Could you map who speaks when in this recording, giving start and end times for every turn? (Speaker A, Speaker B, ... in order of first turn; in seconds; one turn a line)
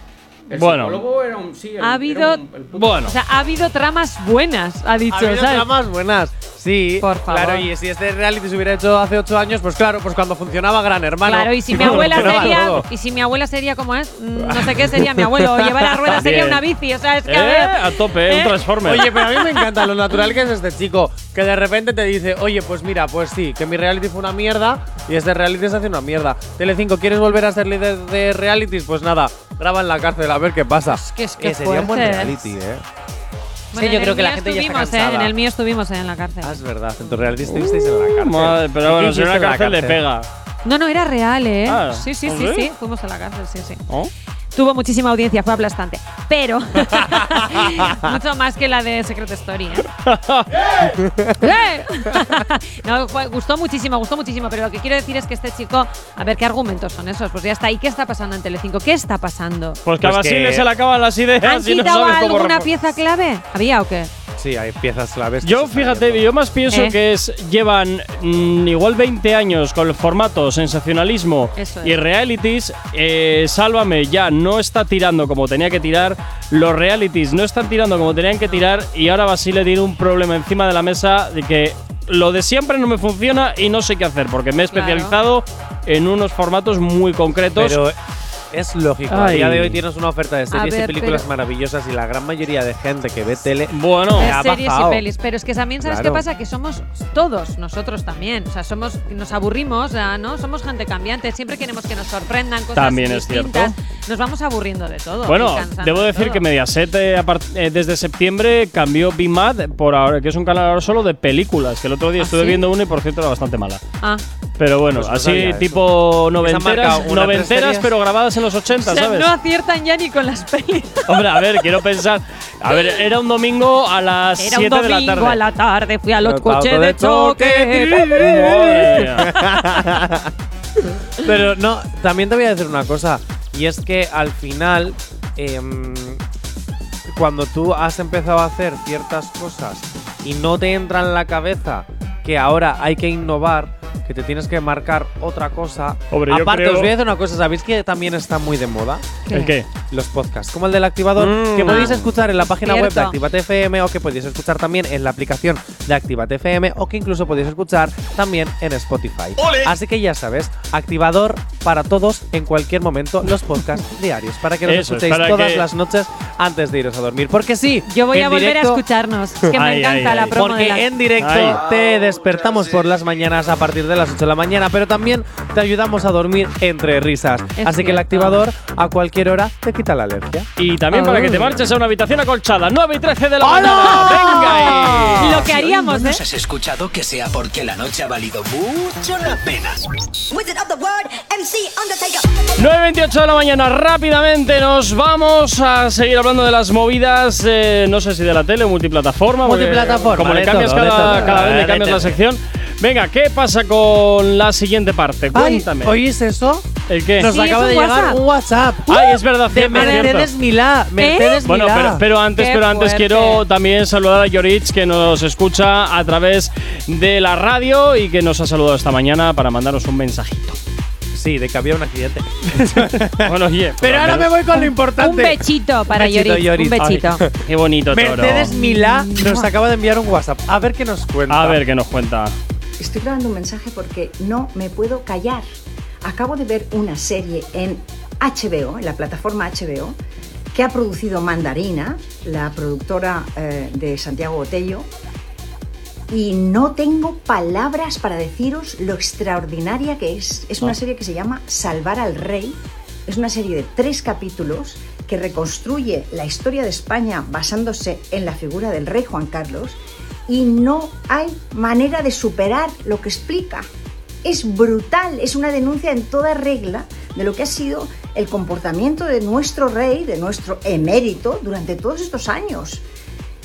Speaker A: 0.5-3.1
Speaker B: 0.5-1.0
Speaker C: 1.8-2.4
Speaker B: 2.7-3.1
Speaker C: 3.0-5.7
Speaker D: 5.1-12.8
Speaker C: 7.0-7.7
Speaker C: 11.2-19.8
Speaker B: 11.8-12.8
Speaker D: 14.4-16.1
Speaker B: 16.1-16.6
Speaker B: 17.2-19.1
Speaker D: 18.8-32.8
Speaker C: 30.9-32.4
Speaker D: 33.7-35.3
Speaker C: 33.7-36.6
Speaker D: 36.4-40.0
Speaker B: 37.4-40.3
Speaker C: 40.6-43.8
Speaker B: 41.7-42.7
Speaker C: 44.5-49.9
Speaker B: 50.0-50.9
Speaker D: 51.0-51.4
Speaker C: 51.4-59.8
Speaker B: 59.8-62.7
Speaker D: 60.0-60.7
Speaker C: 61.4-64.1
Speaker D: 64.4-66.2
Speaker B: 65.4-87.8
Speaker C: 66.7-66.9
Speaker C: 71.5-72.0
Speaker C: 84.7-85.1
Speaker D: 87.5-88.0
Speaker D: 88.5-95.0
Speaker B: 89.1-89.8
Speaker C: 90.5-91.2
Speaker B: 93.7-94.3
Speaker C: 94.2-106.4
Speaker D: 95.8-96.2
Speaker B: 102.7-103.7
Speaker B: 105.2-113.8
Speaker C: 112.2-112.6
Speaker B: 114.6-119.3
Speaker D: 114.9-115.8
Speaker D: 116.4-117.9
Speaker C: 118.8-121.6
Speaker B: 121.1-125.4
Speaker C: 124.4-128.4
Speaker D: 126.2-130.3
Speaker B: 128.0-129.3
Speaker D: 131.2-136.2
Speaker D: 137.1-149.2
Speaker B: 146.1-146.9
Speaker C: 149.2-149.5
Speaker B: 149.3-149.7
Speaker D: 149.9-168.8
Speaker B: 151.2-152.0
Speaker C: 151.6-153.2
Speaker B: 164.7-165.7
Speaker C: 167.9-170.9
Speaker B: 169.5-170.3
Speaker D: 170.3-180.5
Speaker B: 171.2-171.6
Speaker C: 177.6-178.4
Speaker B: 180.6-185.4
Speaker C: 180.9-181.4
Speaker D: 183.4-185.3
Speaker C: 183.6-186.2
Speaker E: 185.2-189.9
Speaker F: 190.3-192.4
Speaker B: 192.6-205.9
Speaker D: 199.4-202.2
Speaker D: 205.3-212.0
Speaker B: 206.9-207.3
Speaker C: 207.2-208.2
Speaker B: 208.9-210.3
Speaker C: 209.7-210.1
Speaker C: 211.0-211.4
Speaker B: 211.4-220.6
Speaker C: 212.3-213.4
Speaker D: 221.1-227.4
Speaker B: 222.8-224.3
Speaker C: 224.5-227.2
Speaker B: 226.8-228.5
Speaker D: 227.9-231.6
Speaker C: 228.5-229.4
Speaker B: 231.3-232.3
Speaker G: 232.8-235.4
Speaker G: 236.0-240.0
Speaker G: 240.5-244.9
Speaker G: 246.1-263.7
Speaker G: 264.2-272.8